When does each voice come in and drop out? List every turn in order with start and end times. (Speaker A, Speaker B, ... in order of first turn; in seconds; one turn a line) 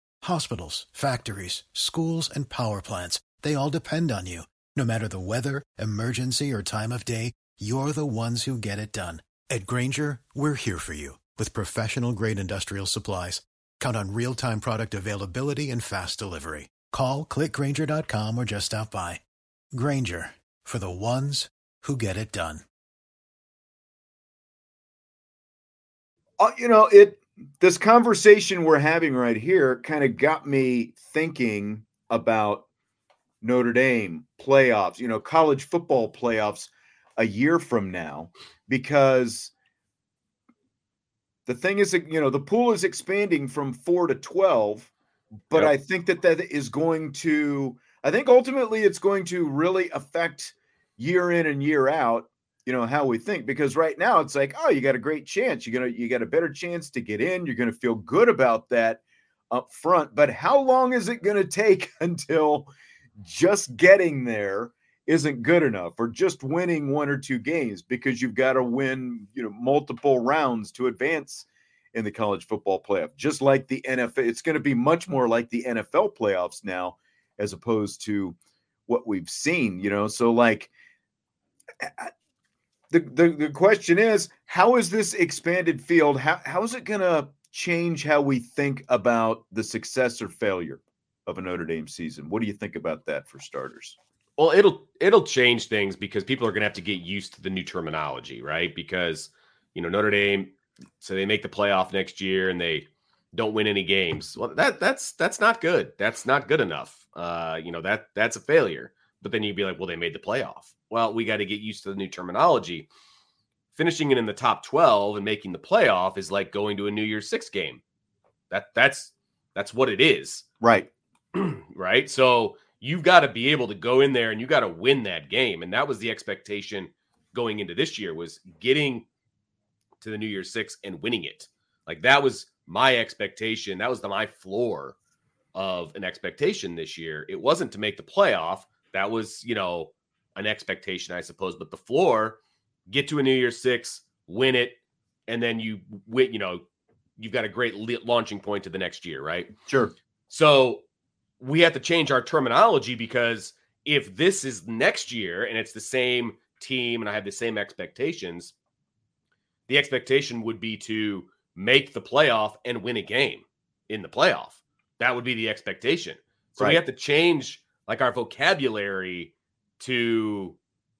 Speaker A: 0.2-19.2
Speaker A: 19.7-22.6
Speaker B: 26.4-32.7
Speaker B: 33.4-39.5
Speaker B: 41.5-44.9
Speaker B: 45.5-78.3
Speaker B: 78.9-80.7
Speaker B: 81.8-82.1
Speaker B: 82.9-94.0
Speaker C: 94.4-112.9
Speaker C: 113.7-117.8
Speaker C: 118.5-120.4
Speaker B: 120.6-120.9
Speaker C: 121.3-129.0
Speaker C: 130.0-134.9
Speaker C: 135.5-146.6
Speaker C: 147.2-149.5
Speaker B: 149.7-149.9
Speaker C: 150.3-150.8
Speaker C: 151.4-158.5
Speaker C: 159.7-170.6